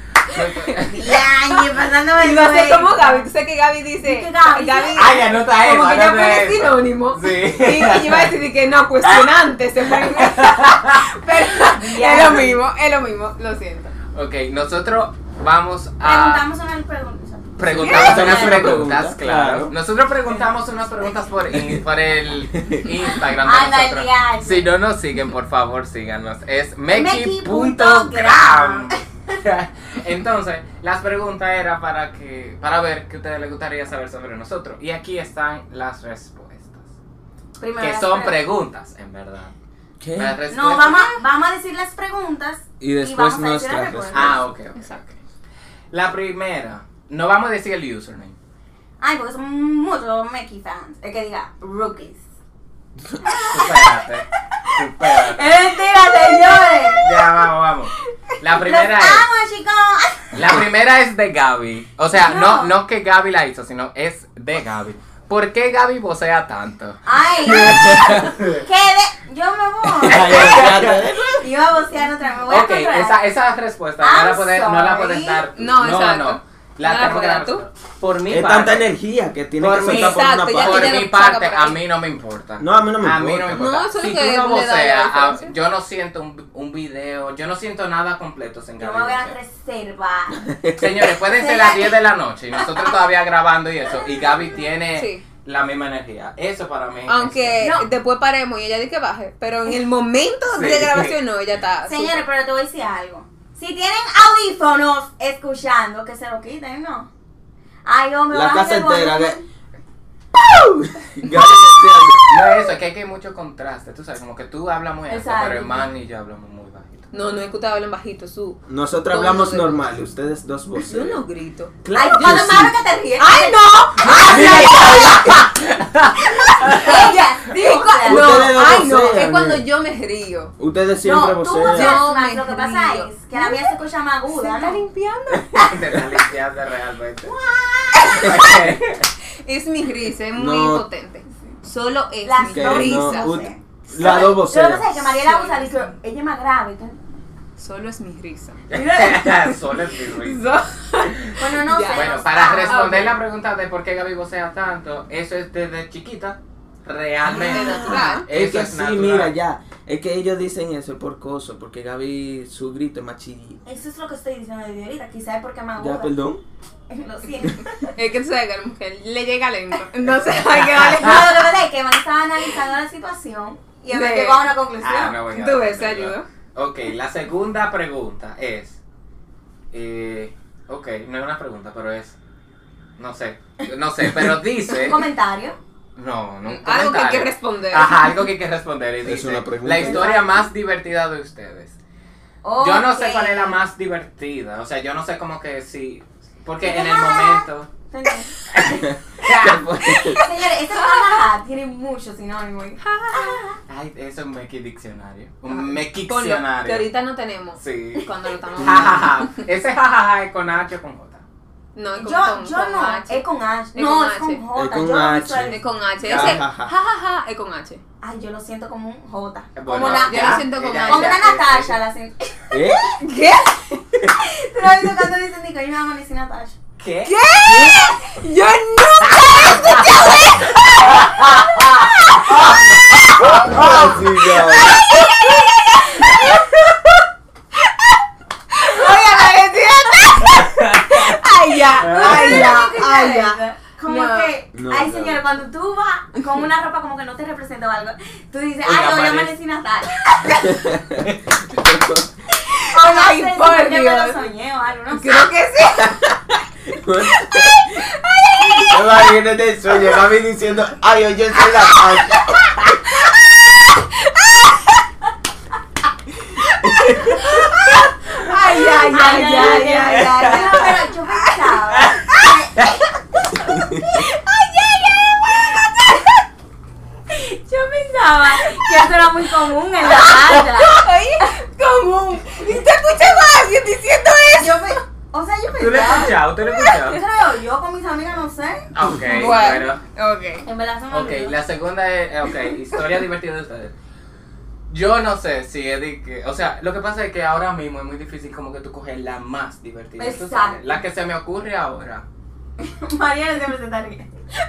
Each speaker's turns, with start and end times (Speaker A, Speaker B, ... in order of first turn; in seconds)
Speaker A: 0.3-1.0, 4.9-8.3, 10.1-11.1, 14.1-16.4, 17.6-36.9, 37.8-39.5, 40.2-41.0, 44.1-45.1, 45.9-48.4, 53.5-55.5, 56.9-59.3, 60.3-68.6, 70.0-71.1, 72.5-78.9, 79.6-89.4, 90.7-97.7, 100.5-101.2, 112.3-117.1, 124.1-127.1, 135.5-137.3, 138.1-139.1, 148.7-150.4, 151.9-159.3, 170.2-171.3, 174.8-178.8, 179.7-182.2, 183.0-185.1, 186.0-191.8, 192.6-197.7, 198.5-200.0, 203.7-206.9, 207.6-211.2, 216.1-216.4, 219.6-221.8, 226.8-227.8, 229.0-232.6, 233.2-234.0, 240.4-241.2, 241.8-242.4, 248.6-249.3, 269.9-270.7, 271.7-272.7, 285.5-287.0, 288.7-289.8, 290.9-293.7, 294.7-302.1
Speaker B: 0.3-0.8, 2.2-14.0, 17.8-18.3, 44.8-45.0, 75.5-77.7, 79.8-81.8, 83.5-85.5, 95.0-95.2, 97.1-102.2, 117.1-119.9, 120.8-122.7, 123.2-125.5, 126.5-130.5, 131.6-133.7, 134.3-135.8, 139.4-144.4, 145.0-145.9, 147.6-148.6, 149.3-153.2, 157.3-158.3, 167.9-171.5, 173.9-174.5, 175.3-176.3, 186.5-188.2, 200.8-201.2, 202.8-203.5, 205.5-209.4, 211.8-214.4, 215.5-217.8, 219.8-221.3, 223.0-223.8, 227.1-232.4, 234.4-236.6, 237.6-238.0, 238.5-244.3, 252.4-254.2, 254.9-256.0, 257.0-259.0, 263.9-264.8, 266.6-271.6, 273.9-276.1, 278.4-278.9, 279.8-284.8, 289.0-290.5
Speaker C: 0.9-3.3, 4.0-5.2, 11.3-12.6, 16.0-18.8, 20.3-20.5, 23.4-24.7, 26.9-29.0, 37.6-38.4, 40.5-44.4, 49.0-52.2, 53.2-53.9, 54.6-57.4, 58.6-60.4, 62.1-62.7, 67.0-73.2, 74.0-75.5, 88.8-90.5, 91.2-92.0, 92.5-92.9, 97.6-97.9, 101.9-107.1, 107.9-109.4, 115.1-115.9, 121.9-125.1, 126.6-128.5, 131.0-134.8, 137.3-138.4, 142.2-147.0, 148.7-149.3, 151.4-153.0, 163.7-166.1, 166.9-167.9, 170.9-175.2, 184.7-185.6, 189.8-190.5, 192.4-193.6, 196.6-198.8, 200.1-203.6, 212.0-215.6, 218.0-222.7, 224.1-226.6, 238.7-239.3, 241.9-250.5, 252.7-255.3, 268.2-272.9, 277.1-280.8, 284.4-288.7, 290.4-291.4, 300.0-300.6, 302.6-304.1
Speaker D: 17.7-19.7, 22.6-22.9, 40.0-40.4, 42.8-44.4, 67.7-68.2, 70.0-71.4, 78.3-81.1, 82.6-83.8, 90.4-91.1, 108.3-109.4, 110.3-112.5, 118.7-121.2, 121.8-122.8, 124.2-125.3, 128.1-129.7, 130.6-132.0, 140.3-140.9, 142.4-145.0, 157.2-163.6, 165.8-166.4, 189.0-190.1, 198.7-200.2, 208.6-209.1, 214.6-216.7, 222.5-222.9, 233.4-234.8, 244.5-245.2, 250.4-252.1, 255.8-256.1, 256.7-257.9, 258.4-262.5, 266.6-267.2, 273.5-273.9